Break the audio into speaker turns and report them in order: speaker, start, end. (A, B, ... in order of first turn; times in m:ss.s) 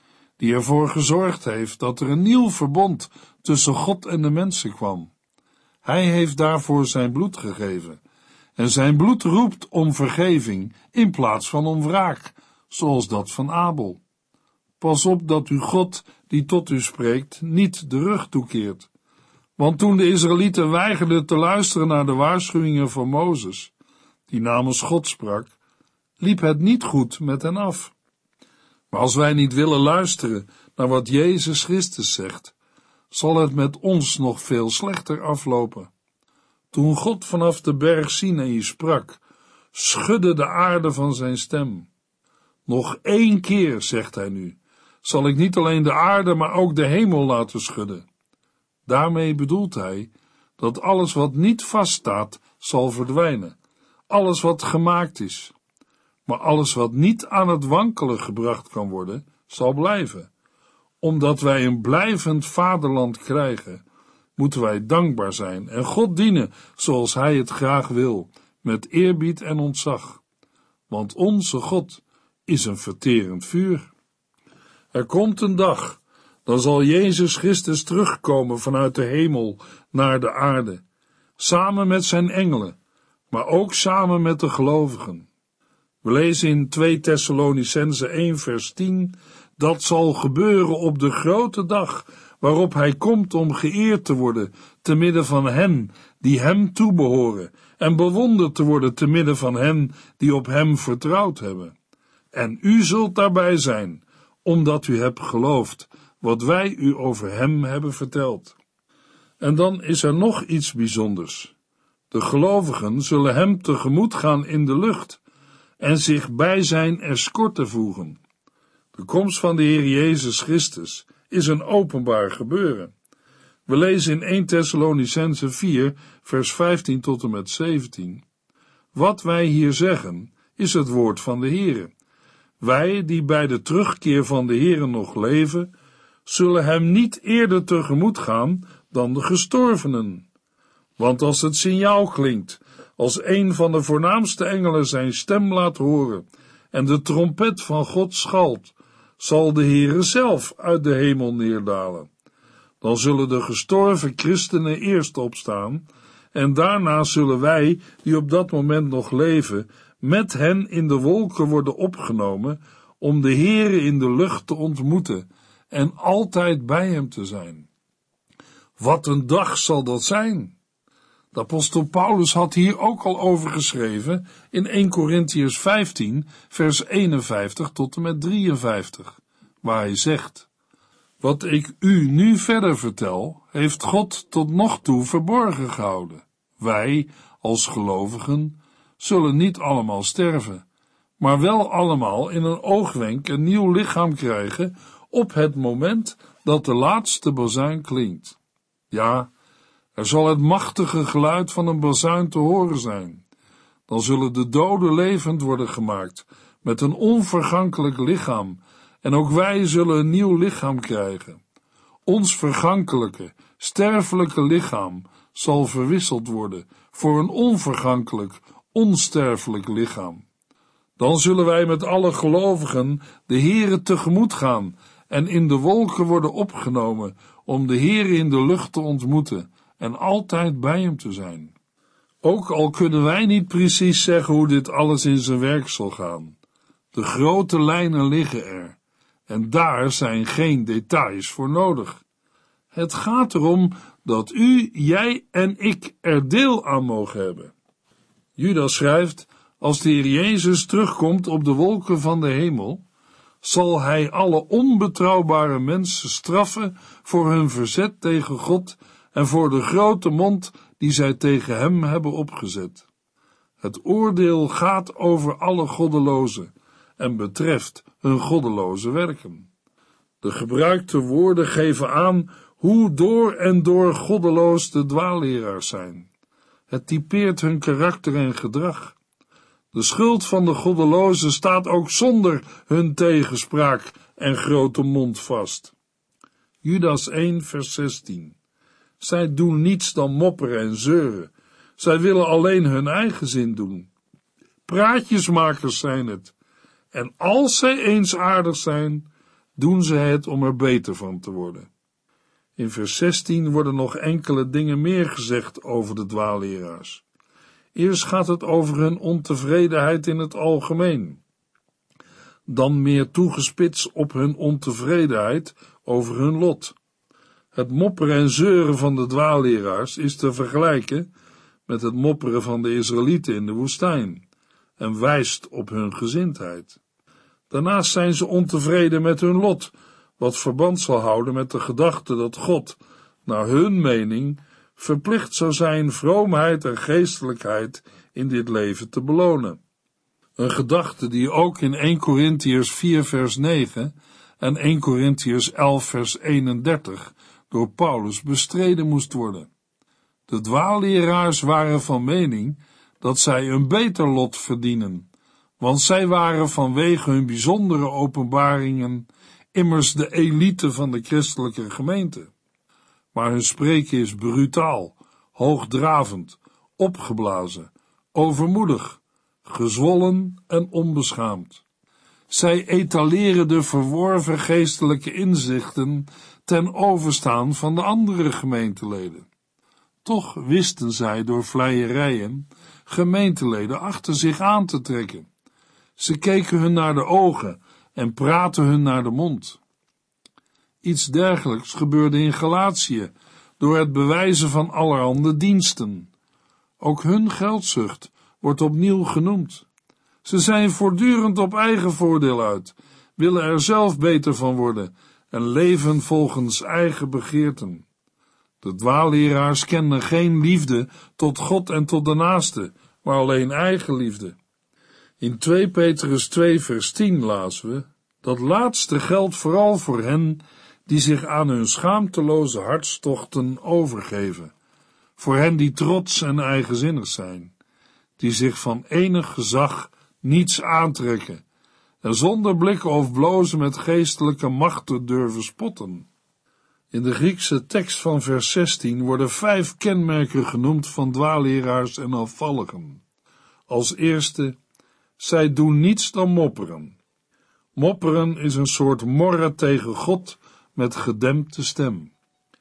0:00.4-0:05.1 A
0:05.8-0:08.0 A
0:08.6-0:14.0 A
0:14.8-0:18.9 A
0:19.6-0:23.7 A
0:24.3-0:25.5 A
0:26.2-0:27.9 A
0:28.9-0:32.5 A
0:33.1-0:35.9 A
0:36.7-0:39.2 A
0:39.7-0:41.9 A
0:42.6-0:48.0 A
0:48.8-0:53.6 A
0:54.1-0:55.5 A
0:56.2-1:00.3 A
1:01.0-1:03.8 A
1:04.4-1:10.2 A
1:10.9-1:13.9 A
1:14.9-1:20.8 A
1:21.4-1:22.8 A
1:23.3-1:25.3 A
1:26.0-1:41.7 A
1:42.3-1:48.5 A
1:49.4-1:51.5 A
1:52.1-1:55.2 A
1:55.8-1:58.2 A
1:58.9-2:02.9 A
2:03.7-2:08.2 A
2:08.9-2:11.9 A
2:12.6-2:15.7 A
2:16.2-2:20.3 A
2:21.0-2:32.1 A
2:32.8-2:47.7 A
2:48.8-2:50.6 A
2:51.3-3:00.5 A
3:01.2-3:10.6 A
3:11.2-3:18.4 A
3:18.9-3:19.3 A
3:20.0-3:23.2 A
3:23.9-3:31.4 A
3:32.0-3:40.2 A
3:41.0-3:51.5 A
3:52.2-3:56.4 A
3:56.9-4:02.0 A
4:02.7-4:07.5 A
4:08.4-4:12.8 A
4:13.4-4:22.9 A
4:23.6-4:29.5 A
4:30.2-4:36.1 A
4:36.7-4:39.0 A
4:39.7-4:45.7 A
4:46.6-4:48.4 A
4:49.0-4:53.9 A
4:54.6-4:56.3 A
4:56.9-5:01.7 A
5:02.6-5:07.0 A
5:07.7-5:11.2 A
5:12.5-5:16.7 A
5:17.5-5:21.1 A
5:21.7-5:24.2 A
5:24.8-5:26.8 A
5:27.5-5:39.6 A
5:40.4-5:49.5 A
5:50.3-6:02.3 A
6:03.1-6:11.6 A
6:12.3-6:19.3 A
6:20.0-6:25.3 A
6:26.0-6:29.6 A
6:30.8-6:36.1 A
6:36.8-6:39.7 A
6:40.2-6:47.8 A
6:48.6-6:54.4 A
6:55.2-7:04.5 A
7:05.2-7:07.5 A
7:08.2-7:11.4 A
7:12.0-7:16.1 A
7:16.9-7:23.0 A
7:23.7-7:24.6 A
7:25.2-7:27.0 A
7:27.7-7:32.1 A